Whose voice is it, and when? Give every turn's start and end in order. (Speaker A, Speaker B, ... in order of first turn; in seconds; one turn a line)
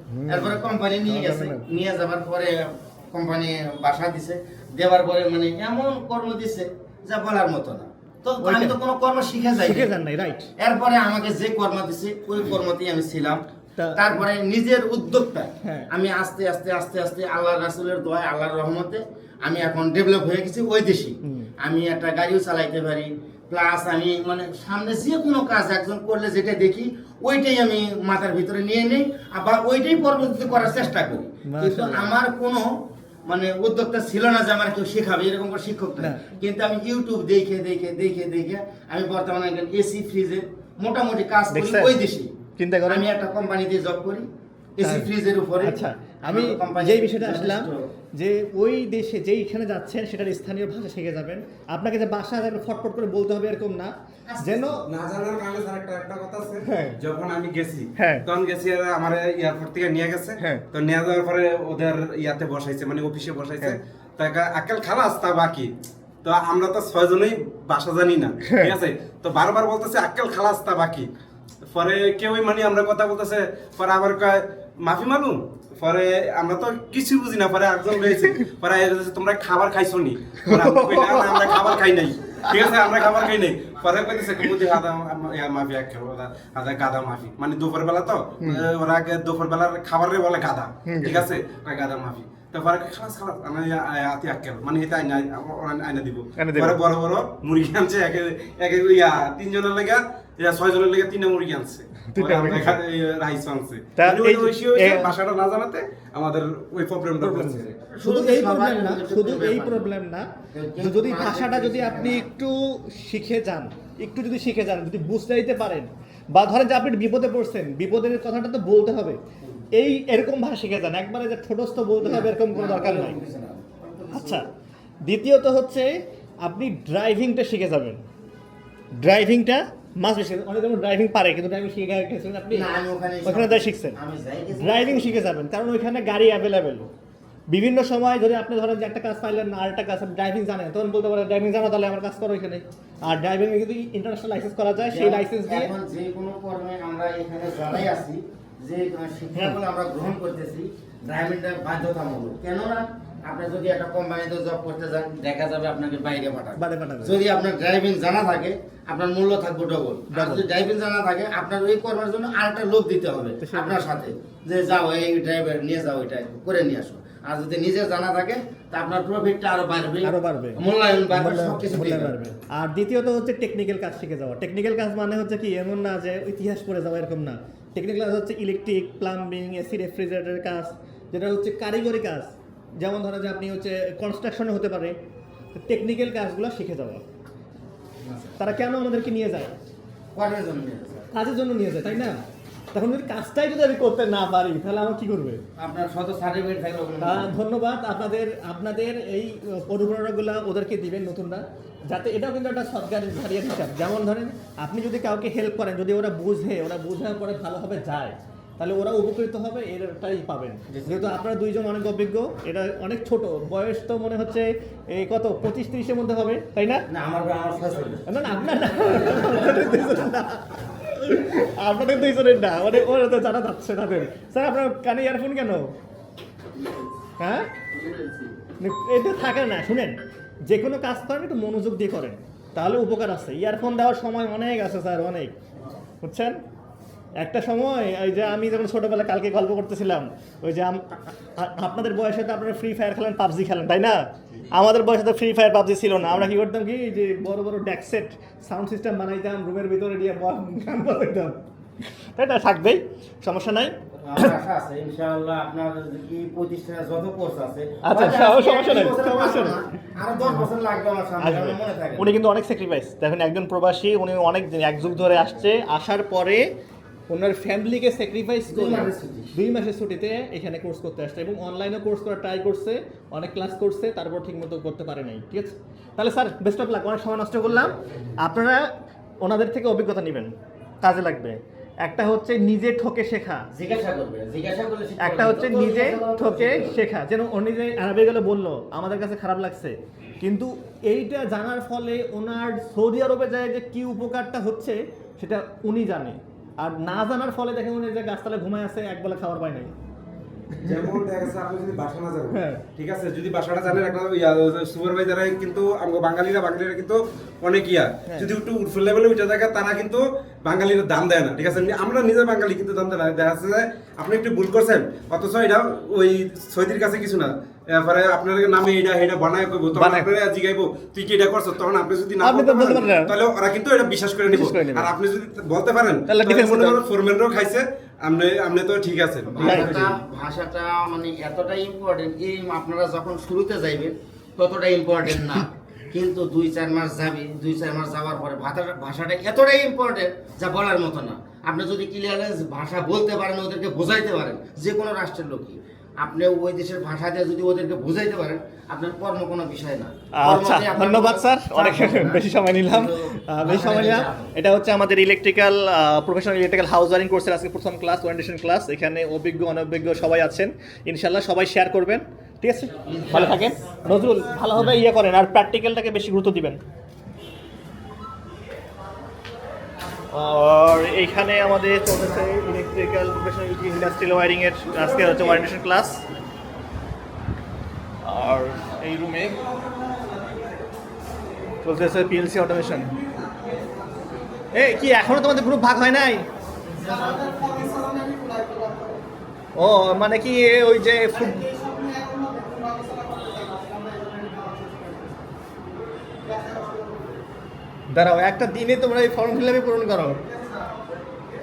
Speaker A: 0.1-1.6
Speaker B: 0.3-9.9
Speaker A: 8.4-8.8
Speaker A: 9.6-10.5
Speaker B: 10.6-13.4
Speaker A: 13.8-14.2
Speaker B: 13.9-32.7
Speaker A: 15.6-15.9
Speaker A: 21.2-21.5
Speaker A: 31.4-32.1
Speaker B: 33.2-42.3
Speaker A: 36.0-36.2
Speaker A: 41.5-42.0
Speaker A: 42.6-43.1
Speaker B: 42.9-47.9
Speaker A: 44.8-54.8
Speaker B: 54.3-54.8
Speaker C: 54.9-65.7
Speaker A: 56.6-57.0
Speaker A: 58.0-58.2
Speaker C: 66.2-71.1
Speaker A: 68.5-68.7
Speaker C: 71.7-107.8
Speaker A: 80.4-81.7
Speaker A: 88.4-88.7
Speaker A: 90.8-91.2
Speaker A: 96.4-96.8
Speaker A: 102.1-102.8
Speaker A: 104.0-105.1
Speaker A: 107.2-110.3
Speaker B: 107.9-109.9
Speaker B: 110.5-112.3
Speaker A: 110.8-119.2
Speaker A: 119.7-123.2
Speaker B: 122.0-124.5
Speaker A: 124.1-124.5
Speaker A: 125.0-125.9
Speaker A: 126.4-128.0
Speaker A: 129.0-132.7
Speaker B: 132.5-135.2
Speaker A: 133.2-134.0
Speaker A: 134.6-136.9
Speaker A: 137.5-145.7
Speaker B: 144.9-172.1
Speaker A: 156.6-157.2
Speaker A: 160.1-160.4
Speaker A: 163.4-163.8
Speaker A: 170.0-184.9
Speaker A: 185.5-187.0
Speaker B: 188.0-188.3
Speaker A: 188.4-189.5
Speaker B: 190.1-191.1
Speaker A: 191.1-192.2
Speaker A: 192.7-195.4
Speaker B: 195.6-197.3
Speaker A: 197.0-216.8
Speaker B: 210.7-211.0
Speaker B: 216.9-218.1
Speaker A: 218.1-225.7
Speaker A: 227.2-227.5
Speaker B: 227.7-228.4
Speaker A: 228.6-235.3
Speaker A: 236.0-236.4
Speaker A: 237.2-251.4
Speaker A: 252.2-254.3
Speaker B: 253.9-262.1
Speaker A: 257.8-259.6
Speaker A: 261.2-266.5
Speaker A: 267.1-278.6
Speaker B: 268.5-269.3
Speaker B: 277.5-278.0
Speaker A: 279.2-280.3
Speaker A: 280.8-283.4
Speaker B: 283.5-286.8
Speaker A: 285.0-299.7
Speaker A: 300.5-300.9
Speaker C: 300.6-330.0
Speaker A: 302.3-302.6
Speaker A: 319.7-320.1
Speaker A: 322.2-323.1
Speaker A: 324.3-324.9
Speaker A: 326.1-326.8
Speaker B: 329.3-354.3
Speaker A: 329.4-329.8
Speaker A: 350.1-366.6
Speaker B: 362.9-363.8
Speaker A: 370.1-376.0
Speaker A: 378.0-379.5
Speaker A: 381.6-382.9
Speaker A: 384.5-386.2
Speaker A: 387.6-388.8
Speaker A: 389.5-395.1
Speaker A: 397.9-400.2